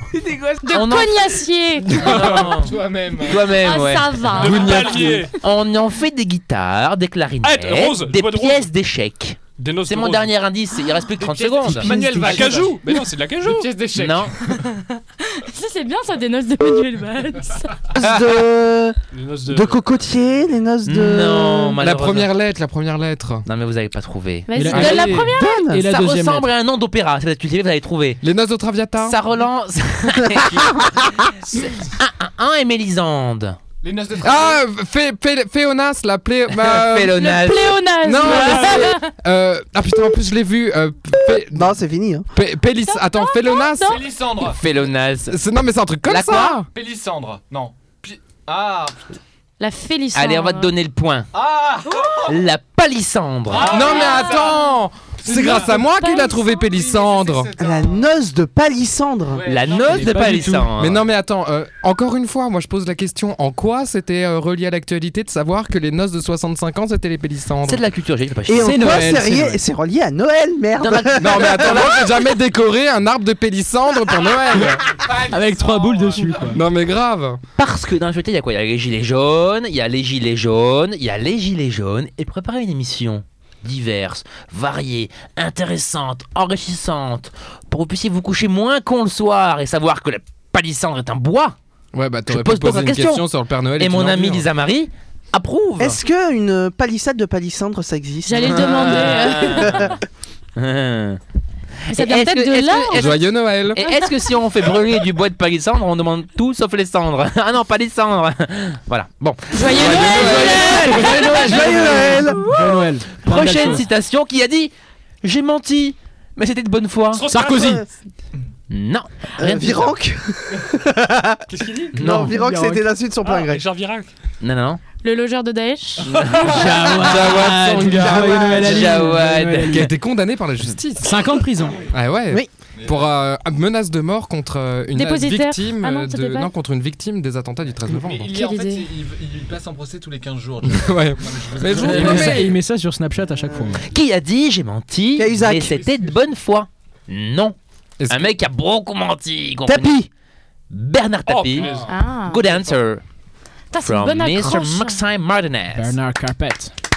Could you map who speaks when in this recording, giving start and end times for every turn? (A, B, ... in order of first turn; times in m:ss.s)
0:00.1-0:00.6 A
0:00.6-0:02.5 B
0:00.7-0:01.4 C
0:01.9-0:04.3 C
0:02.1-0:03.6 D
0:03.5-0:05.2 B
0:04.3-0:05.3 E
0:04.4-0:05.3 F
0:05.4-0:12.0 C
0:07.4-0:08.7 E
0:09.6-0:10.3 E
0:11.2-0:12.9 D
0:11.6-0:12.7 G
0:12.0-0:13.8 E
0:13.4-0:14.5 D
0:14.0-0:14.4 C
0:14.5-0:17.9 B
0:17.9-0:19.0 G
0:19.1-0:19.8 E
0:19.5-0:21.8 G
0:20.8-0:22.3 C
0:21.8-0:23.5 F
0:23.5-0:24.9 C
0:24.5-0:25.7 B
0:24.5-0:26.5 A
0:24.8-0:25.8 G
0:25.7-0:28.2 C
0:28.2-0:29.2 F
0:29.0-0:31.0 C
0:30.2-0:31.3 G
0:31.6-0:33.6 C
0:33.8-0:34.6 D
0:34.2-0:37.4 F
0:36.5-0:37.9 C
0:37.1-0:39.1 B
0:38.0-0:41.8 F
0:38.2-0:38.9 E
0:41.3-0:42.3 G
0:42.3-0:44.0 F
0:42.8-0:44.1 B
0:43.8-0:44.6 D
0:44.4-0:45.4 C
0:45.3-0:46.7 F
0:46.1-0:46.5 C
0:46.7-0:49.2 D
0:49.6-0:50.7 B
0:50.1-0:51.3 C
0:51.3-0:52.4 D
0:52.2-0:53.9 C
0:53.5-0:54.6 D
0:53.7-0:57.5 F
0:53.7-0:54.4 B
0:55.2-0:55.9 D
0:55.2-0:56.6 B
0:56.6-0:58.1 D
0:57.6-0:59.5 G
0:59.3-1:00.4 D
0:59.4-1:01.0 C
0:59.7-1:00.7 A
1:00.8-1:07.8 F
1:07.6-1:09.1 C
1:08.5-1:12.2 G
1:08.6-1:09.6 A
1:10.8-1:11.9 C
1:11.2-1:14.8 F
1:14.8-1:16.6 D
1:15.1-1:16.6 A
1:16.5-1:17.4 F
1:17.6-1:31.6 C
1:31.9-1:34.5 F
1:32.3-1:36.0 C
1:35.8-1:39.3 G
1:38.2-1:40.0 B
1:38.4-1:40.0 C
1:40.6-1:41.2 C
1:41.9-1:43.2 B
1:41.9-1:54.7 C
1:42.9-1:43.8 F
1:43.8-1:44.1 B
1:49.5-1:51.6 B
1:49.7-1:51.2 F
1:51.0-1:52.6 G
1:51.0-1:53.9 A
1:55.2-1:57.3 C
1:57.1-1:57.8 E
1:57.3-1:57.9 A
1:57.4-1:57.8 G
1:58.7-1:59.9 C
1:59.4-2:03.6 G
2:01.5-2:01.9 E
2:01.9-2:02.4 C
2:02.0-2:02.9 A
2:03.2-2:04.1 E
2:04.4-2:04.8 C
2:05.0-2:06.1 B
2:06.1-2:06.4 E
2:06.1-2:06.6 C
2:06.3-2:09.9 A
2:06.9-2:09.0 G
2:07.0-2:09.0 F
2:08.6-2:09.9 C
2:09.7-2:11.2 F
2:11.0-2:11.8 A
2:11.9-2:18.3 F
2:12.8-2:13.1 D
2:14.9-2:16.5 B
2:17.8-2:22.5 D
2:18.3-2:18.9 B
2:20.6-2:22.6 F
2:21.7-2:23.8 A
2:23.8-2:27.6 C
2:25.2-2:25.8 G
2:25.6-2:26.2 D
2:28.0-2:28.4 F
2:28.1-2:30.1 C
2:29.7-2:30.1 G
2:30.7-2:33.0 C
2:31.3-2:31.9 E
2:31.6-2:31.9 D
2:31.9-2:32.5 B
2:33.7-2:35.0 B
2:33.8-2:36.0 C
2:35.7-2:36.7 A